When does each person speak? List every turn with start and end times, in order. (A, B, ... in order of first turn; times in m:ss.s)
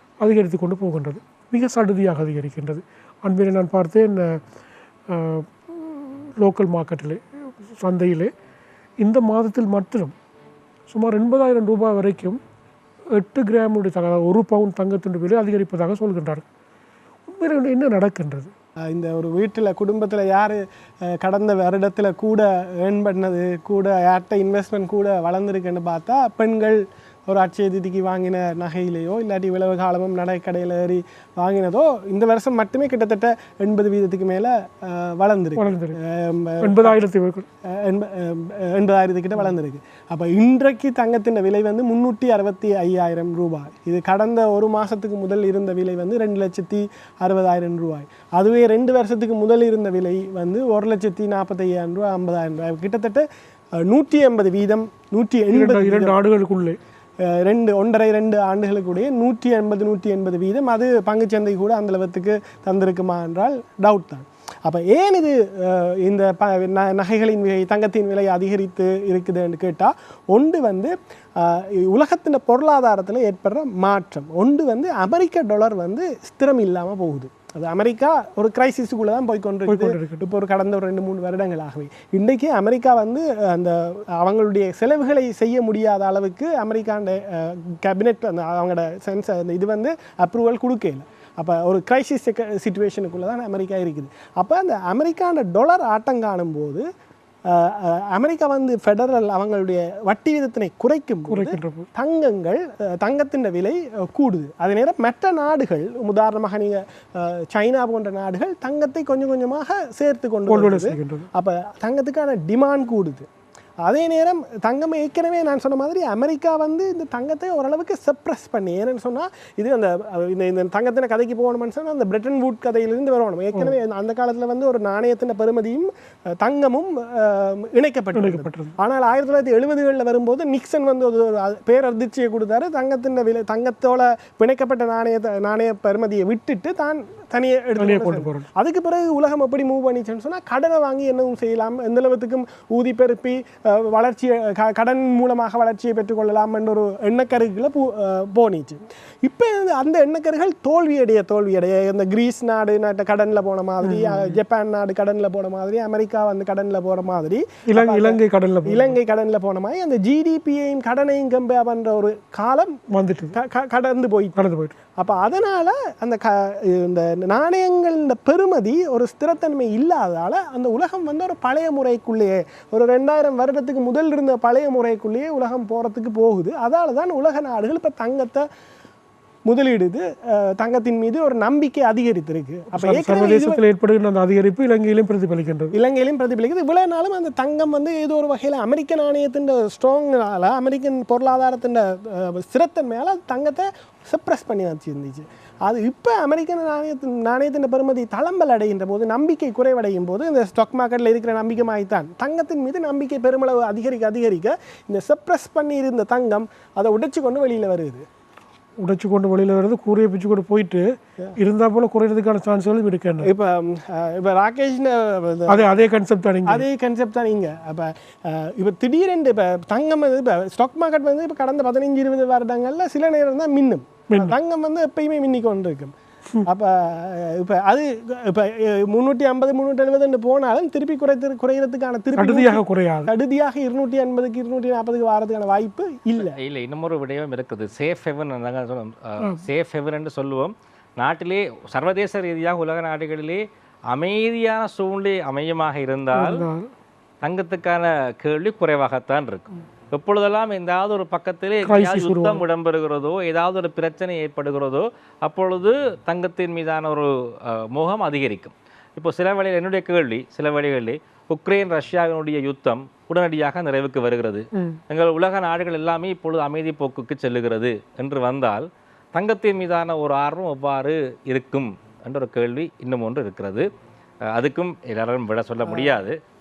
0:00.2-0:04.4 A
0:05.1-0:07.2 A
0:07.8-0:08.3 A
0:09.0-0:10.2 A
0:10.9-0:12.4 A
0:13.1-0:16.5 A
0:17.3-0:18.5 A
0:18.9-0:37.0 B
0:35.6-0:36.0 A
0:36.6-0:37.5 A
0:37.7-0:53.2 B
0:53.8-0:56.2 B
0:55.5-0:56.8 A
0:57.2-1:36.8 B
1:19.7-1:20.2 A
1:37.5-1:53.3 B
1:41.3-1:41.9 A
1:50.5-1:51.3 A
1:53.8-2:05.9 B
2:06.4-2:42.8 B
2:08.1-2:08.8 A
2:17.8-2:18.5 A
2:33.8-2:34.4 A
2:37.7-2:39.0 A
2:42.9-2:43.4 A
2:43.3-2:44.4 B
2:44.4-2:44.8 A
2:45.0-2:58.4 B
2:59.5-3:03.6 B
3:02.7-3:05.7 A
3:05.7-3:28.0 B
3:28.8-3:30.9 A
3:31.4-3:33.3 A
3:33.2-3:35.7 B
3:35.5-3:36.6 A
3:36.5-3:45.9 B
3:44.1-3:44.4 A
3:46.5-3:56.4 B
3:52.2-3:53.1 A
3:56.3-4:06.5 C
4:06.1-4:06.7 A
4:07.2-4:33.7 C
4:11.6-4:12.4 A
4:34.3-4:36.2 C
4:35.6-4:36.1 B